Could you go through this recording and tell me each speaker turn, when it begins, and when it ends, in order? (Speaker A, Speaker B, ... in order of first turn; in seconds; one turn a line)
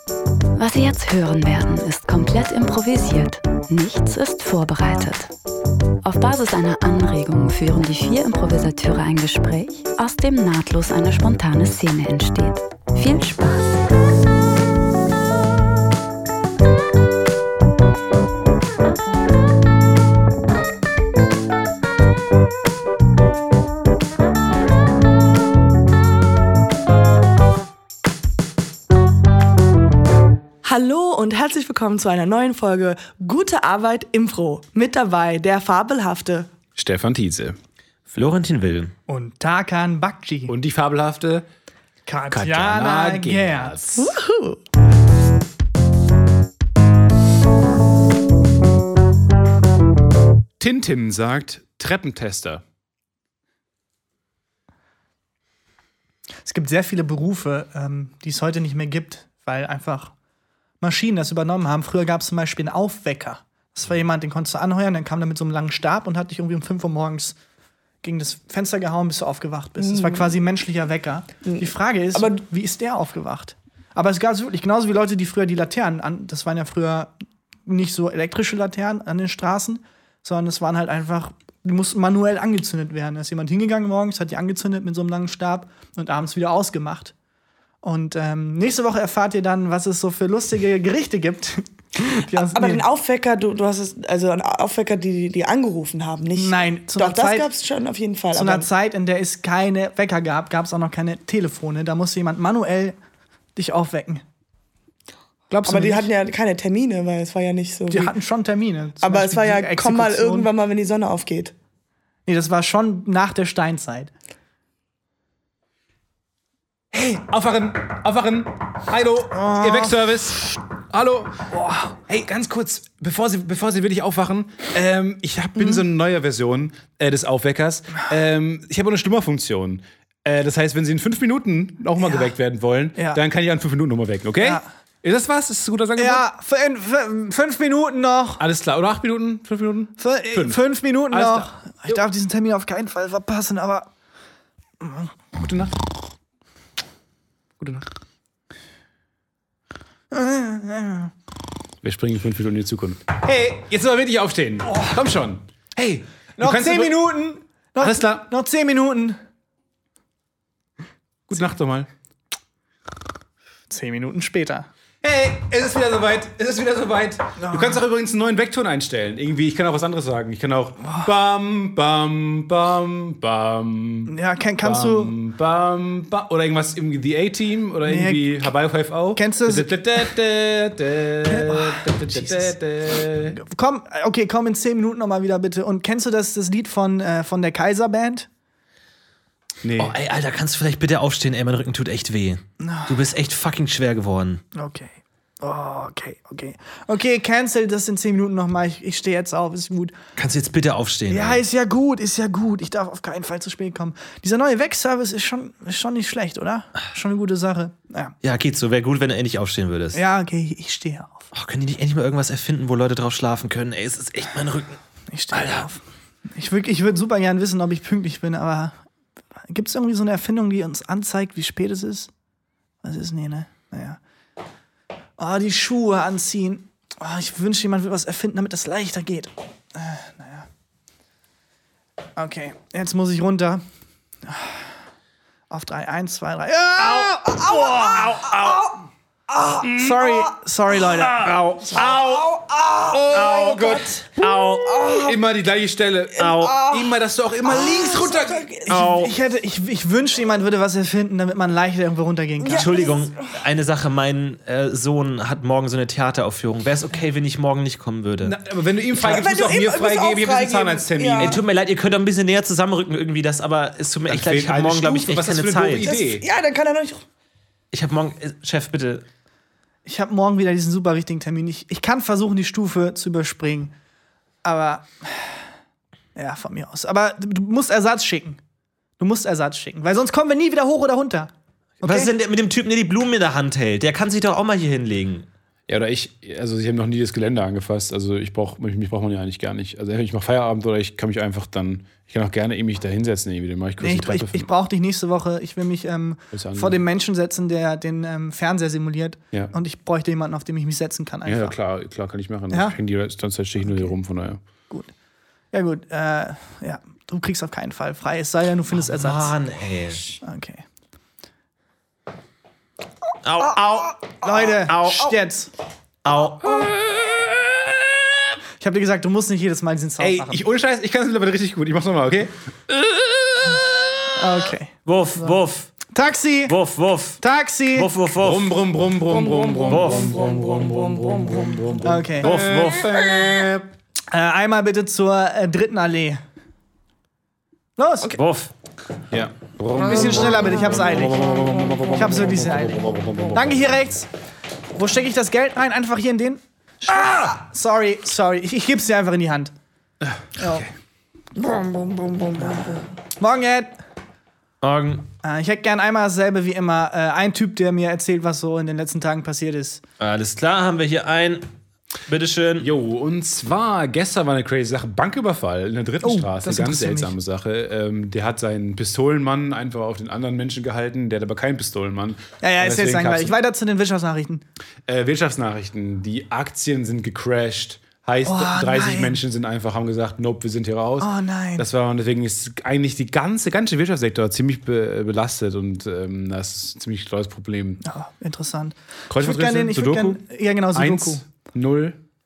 Speaker A: 0.6-5.3
Speaker A: 6.0-13.8
Speaker B: 30.6-36.5
Speaker C: 36.8-37.5
Speaker D: 38.1-38.9
Speaker E: 39.1-40.5
Speaker C: 40.5-41.5
Speaker E: 42.0-43.8
Speaker C: 42.3-44.1
Speaker B: 44.0-44.6
Speaker C: 50.6-52.6
Speaker E: 56.4-60.1
Speaker E: 60.8-67.4
Speaker E: 68.0-77.1
Speaker B: 69.8-70.2
Speaker B: 72.1-72.4
Speaker E: 77.7-87.1
Speaker E: 87.8-92.8
Speaker B: 92.3-98.7
Speaker E: 96.3-97.5
Speaker E: 98.3-103.0
Speaker E: 103.5-104.2
Speaker E: 105.5-106.1
Speaker B: 105.7-108.1
Speaker E: 107.9-110.5
Speaker B: 109.0-111.5
Speaker E: 112.2-114.1
Speaker C: 116.9-121.5
Speaker E: 119.3-120.0
Speaker E: 121.5-122.0
Speaker C: 122.0-136.2
Speaker E: 132.0-132.3
Speaker E: 132.9-133.2
Speaker E: 134.4-134.7
Speaker E: 136.0-138.4
Speaker C: 138.4-140.6
Speaker E: 140.0-143.9
Speaker C: 141.1-142.0
Speaker E: 144.8-145.1
Speaker C: 145.3-145.8
Speaker C: 147.6-147.9
Speaker E: 150.1-151.1
Speaker C: 151.8-157.1
Speaker E: 156.4-159.2
Speaker C: 157.8-158.2
Speaker C: 161.3-161.9
Speaker E: 163.7-164.7
Speaker C: 165.0-183.4
Speaker E: 167.4-167.8
Speaker E: 170.8-171.1
Speaker E: 174.1-175.1
Speaker E: 177.8-178.3
Speaker E: 179.1-180.1
Speaker E: 181.2-182.5
Speaker E: 183.2-188.3
Speaker C: 189.6-189.9
Speaker D: 189.8-194.4
Speaker E: 192.6-192.9
Speaker E: 194.5-199.9
Speaker D: 200.2-201.4
Speaker E: 201.1-208.1
Speaker D: 208.2-210.0
Speaker E: 209.9-211.3
Speaker D: 211.3-214.8
Speaker E: 215.1-218.8
Speaker D: 215.3-215.6
Speaker E: 219.5-222.1
Speaker E: 222.8-224.0
Speaker E: 225.2-230.5
Speaker E: 232.2-233.6
Speaker E: 234.2-234.7
Speaker E: 235.5-237.2
Speaker D: 236.8-238.5
Speaker B: 237.2-238.7
Speaker C: 238.2-238.6
Speaker B: 239.3-240.3
Speaker C: 239.6-240.0
Speaker E: 239.8-241.3
Speaker C: 240.9-241.9
Speaker D: 241.1-242.3
Speaker B: 241.8-245.2
Speaker C: 242.8-244.0
Speaker D: 243.1-244.9
Speaker C: 244.7-248.6
Speaker B: 246.2-248.8
Speaker D: 246.2-246.7
Speaker D: 248.7-249.1
Speaker E: 248.7-252.8
Speaker B: 252.4-253.2
Speaker D: 252.6-258.4
Speaker C: 258.2-261.4
Speaker B: 259.0-261.4
Speaker D: 261.2-265.9
Speaker C: 264.1-266.2
Speaker B: 265.8-267.0
Speaker D: 267.7-269.1
Speaker E: 269.8-273.7
Speaker E: 274.4-275.4
Speaker E: 276.1-278.4
Speaker E: 279.0-281.3
Speaker E: 281.8-282.1
Speaker D: 281.8-285.3
Speaker C: 285.7-294.5
Speaker E: 293.8-301.6
Speaker C: 296.3-296.8
Speaker C: 301.2-304.4
Speaker E: 302.5-302.8
Speaker E: 303.6-303.9
Speaker E: 305.5-309.3
Speaker D: 308.7-310.2
Speaker E: 310.2-310.6
Speaker D: 313.2-315.1
Speaker E: 314.2-315.5
Speaker D: 316.0-316.7
Speaker C: 316.4-318.2
Speaker E: 318.6-320.4
Speaker C: 320.0-324.3
Speaker E: 324.1-325.4
Speaker D: 324.9-325.7
Speaker E: 325.9-326.6
Speaker D: 326.5-327.2
Speaker E: 327.2-327.9
Speaker D: 327.7-328.5
Speaker C: 328.2-333.7
Speaker D: 329.6-330.2
Speaker B: 330.2-331.3
Speaker E: 331.8-332.4
Speaker D: 332.2-333.0
Speaker E: 334.1-336.2
Speaker E: 337.8-338.1
Speaker D: 338.1-338.5
Speaker C: 339.1-343.7
Speaker E: 339.8-344.1
Speaker E: 344.7-349.5
Speaker C: 350.0-350.7
Speaker E: 350.4-350.7
Speaker B: 351.4-352.4
Speaker E: 352.4-353.8
Speaker D: 354.6-355.1
Speaker E: 355.2-359.8
Speaker D: 360.0-361.5
Speaker D: 362.1-362.7
Speaker C: 362.6-373.3
Speaker E: 366.0-367.1
Speaker E: 372.4-374.4
Speaker C: 374.9-387.8
Speaker E: 378.2-379.2
Speaker E: 381.0-381.7
Speaker E: 387.8-391.2
Speaker C: 389.1-390.2
Speaker C: 390.7-392.0